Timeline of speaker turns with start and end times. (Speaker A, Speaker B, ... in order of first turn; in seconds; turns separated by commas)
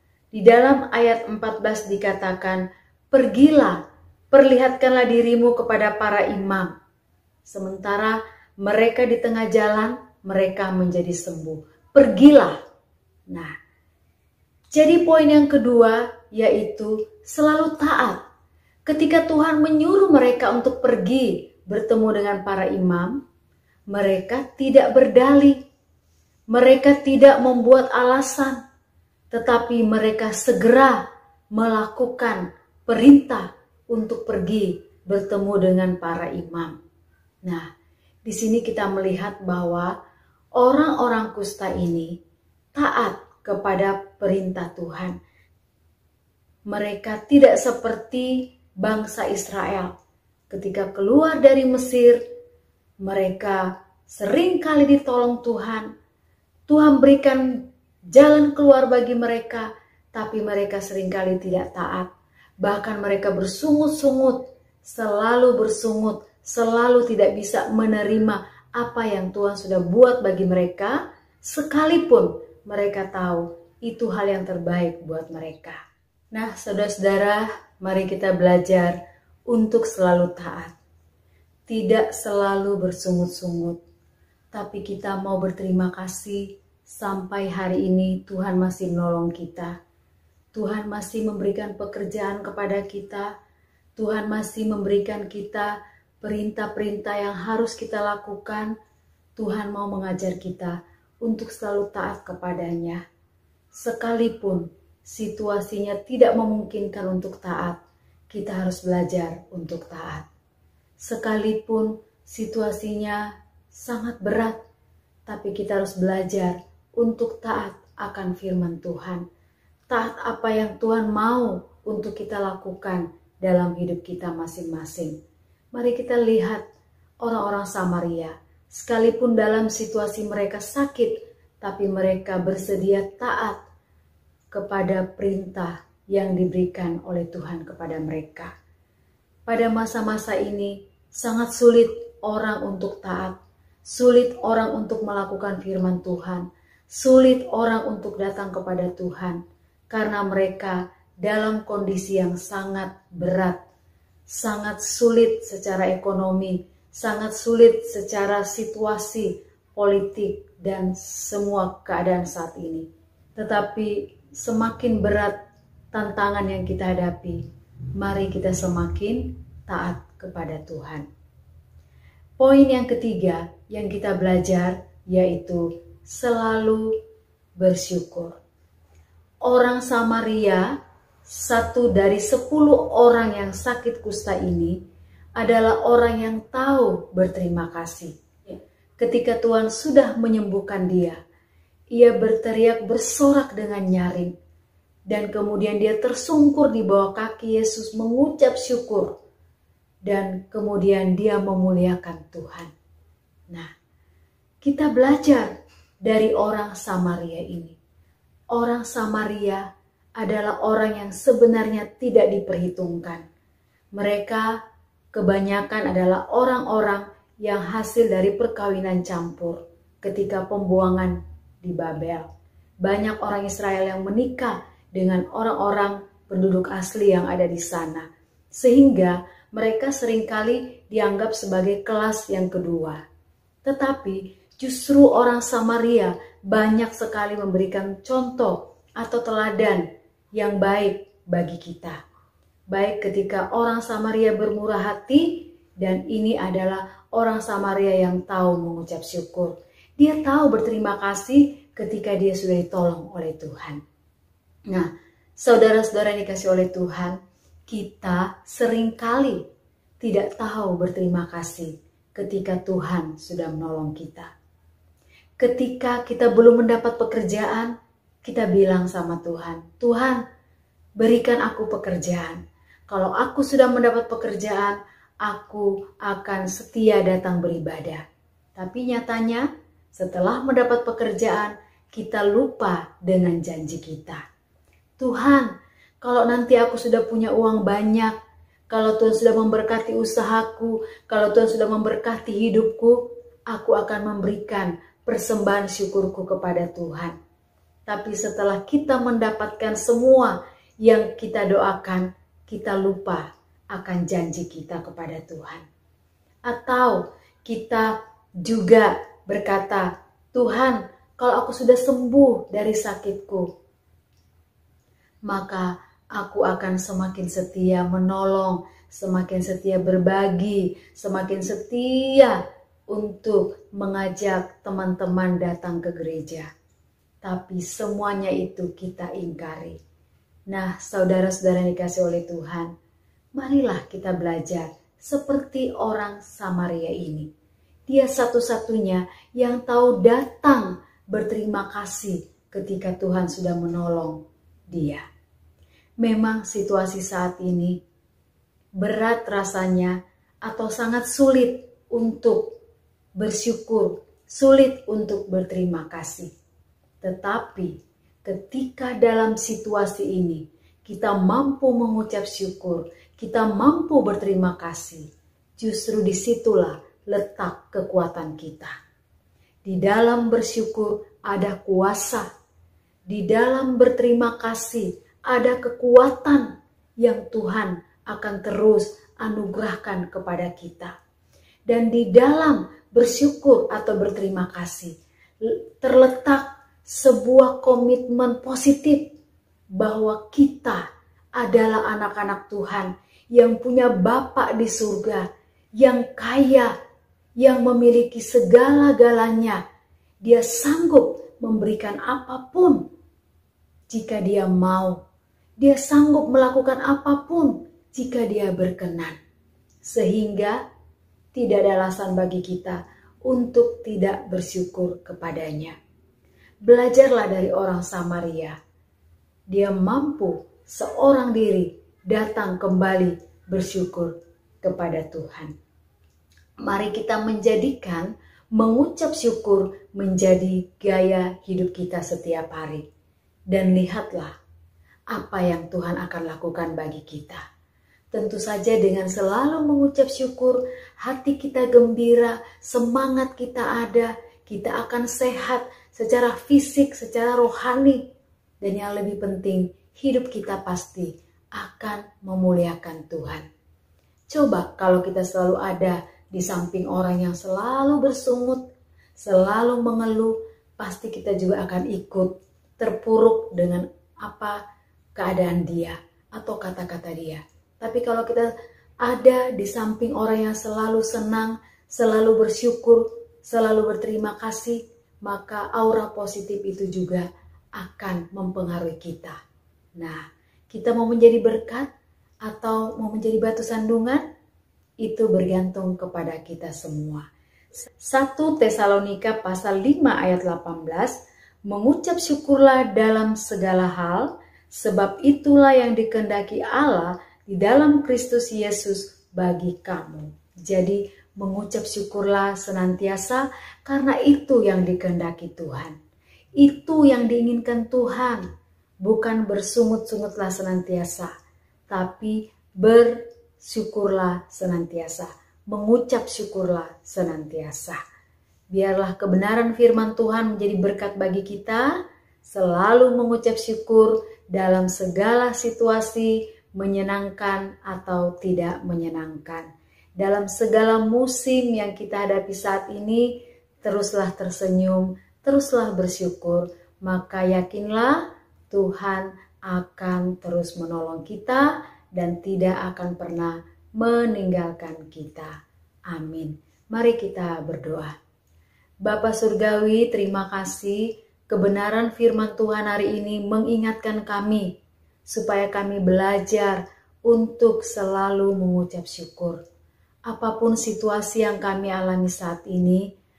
Speaker A: 0.3-3.8, Speaker A: 4.3-6.7, Speaker A: 7.5-12.6, Speaker A: 13.3-13.5, Speaker A: 14.7-18.2, Speaker A: 18.9-23.2, Speaker A: 23.9-25.6, Speaker A: 26.5-28.6, Speaker A: 29.3-31.0, Speaker A: 31.5-36.8, Speaker A: 38.3-40.0, Speaker A: 40.6-42.2, Speaker A: 42.7-45.2, Speaker A: 46.7-49.9, Speaker A: 50.5-52.2, Speaker A: 53.0-55.9, Speaker A: 56.7-62.1, Speaker A: 62.6-75.8, Speaker A: 76.3-79.0, Speaker A: 79.5-80.7, Speaker A: 81.7-83.8, Speaker A: 84.5-89.8, Speaker A: 90.5-93.3, Speaker A: 94.0-98.7, Speaker A: 99.4-103.0, Speaker A: 103.8-107.8, Speaker A: 108.3-110.3, Speaker A: 111.0-114.6, Speaker A: 115.3-119.2, Speaker A: 119.9-125.2, Speaker A: 125.7-126.6, Speaker A: 127.2-133.6, Speaker A: 134.5-138.5, Speaker A: 139.5-149.4, Speaker A: 149.9-153.6, Speaker A: 154.3-162.9, Speaker A: 163.4-165.4, Speaker A: 165.9-167.4, Speaker A: 168.0-171.1, Speaker A: 172.4-176.9, Speaker A: 177.6-178.4, Speaker A: 179.5-180.7, Speaker A: 181.3-184.8, Speaker A: 185.4-191.2, Speaker A: 191.9-194.3, Speaker A: 195.1-199.1, Speaker A: 200.1-202.7, Speaker A: 204.6-205.5, Speaker A: 206.1-207.8, Speaker A: 208.5-209.6, Speaker A: 210.2-213.2, Speaker A: 213.9-214.6, Speaker A: 215.1-222.3, Speaker A: 222.8-233.0, Speaker A: 233.7-239.8, Speaker A: 240.4-242.0, Speaker A: 242.7-253.8, Speaker A: 254.7-259.4, Speaker A: 260.0-264.3, Speaker A: 265.4-267.7, Speaker A: 268.2-270.2, Speaker A: 271.0-278.0, Speaker A: 278.6-284.2, Speaker A: 285.0-288.1, Speaker A: 288.7-297.1, Speaker A: 297.9-305.6, Speaker A: 306.5-313.5, Speaker A: 315.3-326.5, Speaker A: 327.2-329.8, Speaker A: 330.5-332.7, Speaker A: 333.4-337.3, Speaker A: 337.9-345.0, Speaker A: 346.0-347.8, Speaker A: 348.8-352.6, Speaker A: 353.2-356.3, Speaker A: 357.0-365.1, Speaker A: 365.6-368.7, Speaker A: 369.6-372.3, Speaker A: 373.1-380.9, Speaker A: 381.7-389.1, Speaker A: 389.8-390.9, Speaker A: 391.4-395.3, Speaker A: 395.8-396.7, Speaker A: 397.4-399.6, Speaker A: 400.2-402.9, Speaker A: 403.9-405.0, Speaker A: 405.6-409.2, Speaker A: 409.8-410.6, Speaker A: 411.3-415.8, Speaker A: 416.6-418.6, Speaker A: 419.5-425.5, Speaker A: 426.6-432.9, Speaker A: 433.5-434.3, Speaker A: 435.1-437.4, Speaker A: 438.1-448.0, Speaker A: 448.6-453.4, Speaker A: 454.3-458.6, Speaker A: 459.2-464.6, Speaker A: 465.2-468.5, Speaker A: 469.0-479.4, Speaker A: 480.0-481.9, Speaker A: 482.4-484.2, Speaker A: 485.0-487.3, Speaker A: 488.0-505.9, Speaker A: 506.6-508.4, Speaker A: 509.0-511.3, Speaker A: 511.9-518.0, Speaker A: 518.7-545.5, Speaker A: 546.1-548.1, Speaker A: 549.0-554.7, Speaker A: 555.3-559.6, Speaker A: 560.3-563.1